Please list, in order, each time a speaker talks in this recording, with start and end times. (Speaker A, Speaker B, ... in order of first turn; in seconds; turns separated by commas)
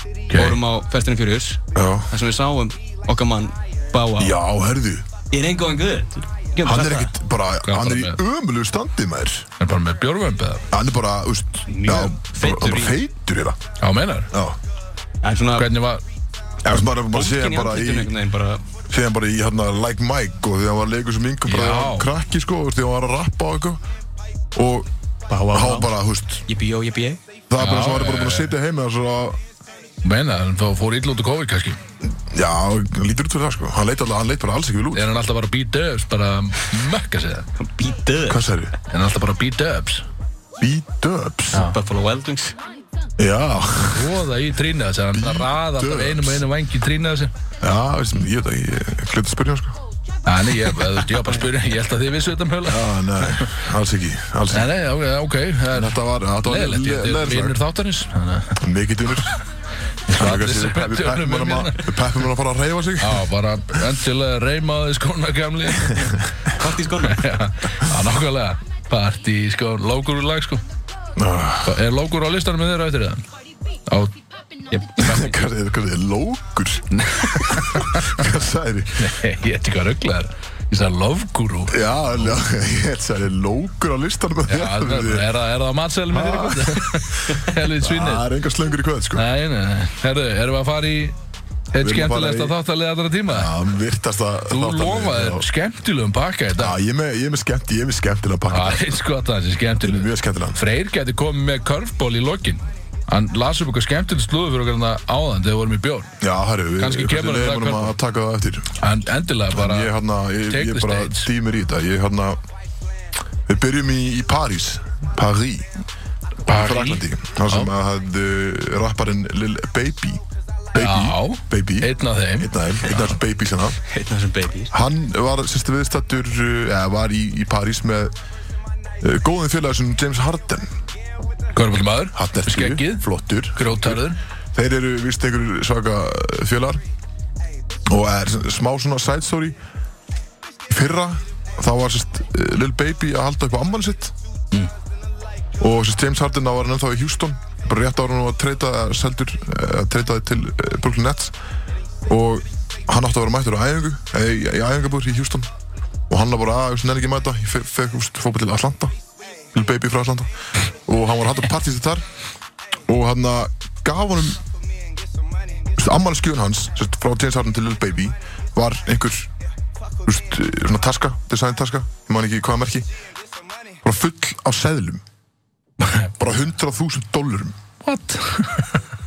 Speaker A: 0.3-0.6, Speaker B: 0.3-4.4, Speaker C: 1.7-2.1, Speaker C: 4.2-5.1, Speaker B: 5.3-7.1, Speaker C: 6.6-9.5, Speaker A: 7.6-8.2, Speaker A: 9.6-10.6, Speaker C: 10.7-13.6, Speaker B: 11.7-13.0, Speaker A: 13.8-14.3, Speaker C: 14.3-14.6, Speaker B: 15.2-15.7, Speaker A: 15.5-16.0, Speaker C: 16.6-18.1, Speaker B: 16.8-18.6, Speaker C: 18.9-23.8, Speaker A: 21.4-22.1, Speaker C: 24.5-24.9, Speaker B: 25.3-25.9, Speaker C: 25.5-26.4, Speaker B: 26.5-27.2, Speaker C: 27.5-29.4, Speaker A: 27.6-28.5, Speaker A: 30.0-31.8, Speaker C: 32.0-35.2, Speaker A: 34.9-37.5, Speaker B: 37.6-38.4, Speaker C: 38.3-38.7, Speaker A: 38.9-40.0, Speaker C: 40.6-41.7, Speaker B: 41.5-42.5, Speaker C: 43.2-44.2, Speaker A: 43.9-47.3, Speaker C: 45.1-46.4, Speaker C: 47.6-49.8, Speaker A: 50.2-53.5, Speaker C: 52.6-54.7, Speaker A: 54.5-58.6, Speaker C: 55.7-57.6, Speaker C: 58.6-59.4, Speaker A: 60.1-62.0, Speaker C: 60.1-63.3, Speaker A: 63.0-66.1, Speaker B: 66.5-67.3, Speaker A: 67.0-70.6, Speaker C: 71.2-71.8, Speaker A: 71.6-73.2, Speaker A: 73.9-74.1, Speaker B: 74.7-75.3, Speaker C: 75.0-79.2, Speaker A: 76.9-78.1, Speaker A: 79.0-81.8, Speaker C: 81.7-85.3, Speaker A: 84.5-88.2, Speaker C: 86.1-89.3, Speaker A: 89.1-91.2, Speaker A: 91.7-93.5, Speaker C: 91.8-92.5, Speaker C: 93.3-95.5, Speaker A: 94.5-96.8, Speaker C: 96.6-98.9, Speaker A: 98.5-106.1, Speaker C: 99.8-100.6, Speaker C: 106.2-108.8, Speaker A: 106.8-107.9, Speaker A: 108.8-109.9, Speaker C: 109.5-112.4, Speaker A: 110.5-111.3, Speaker C: 113.5-115.7, Speaker A: 116.5-117.7, Speaker C: 116.5-120.2, Speaker C: 120.7-123.8, Speaker A: 120.7-122.5, Speaker B: 123.9-124.7, Speaker C: 124.7-128.1, Speaker C: 129.0-130.7, Speaker A: 131.5-134.2, Speaker C: 132.1-136.8, Speaker C: 137.9-139.6, Speaker C: 140.7-144.1, Speaker C: 145.6-151.3, Speaker C: 152.1-155.5, Speaker C: 156.1-158.9, Speaker C: 159.5-160.3, Speaker C: 160.8-162.0, Speaker C: 162.9-164.4, Speaker C: 165.8-169.3, Speaker C: 170.0-172.9, Speaker C: 173.8-175.0, Speaker A: 175.8-176.1, Speaker C: 176.2-177.6, Speaker A: 177.8-178.8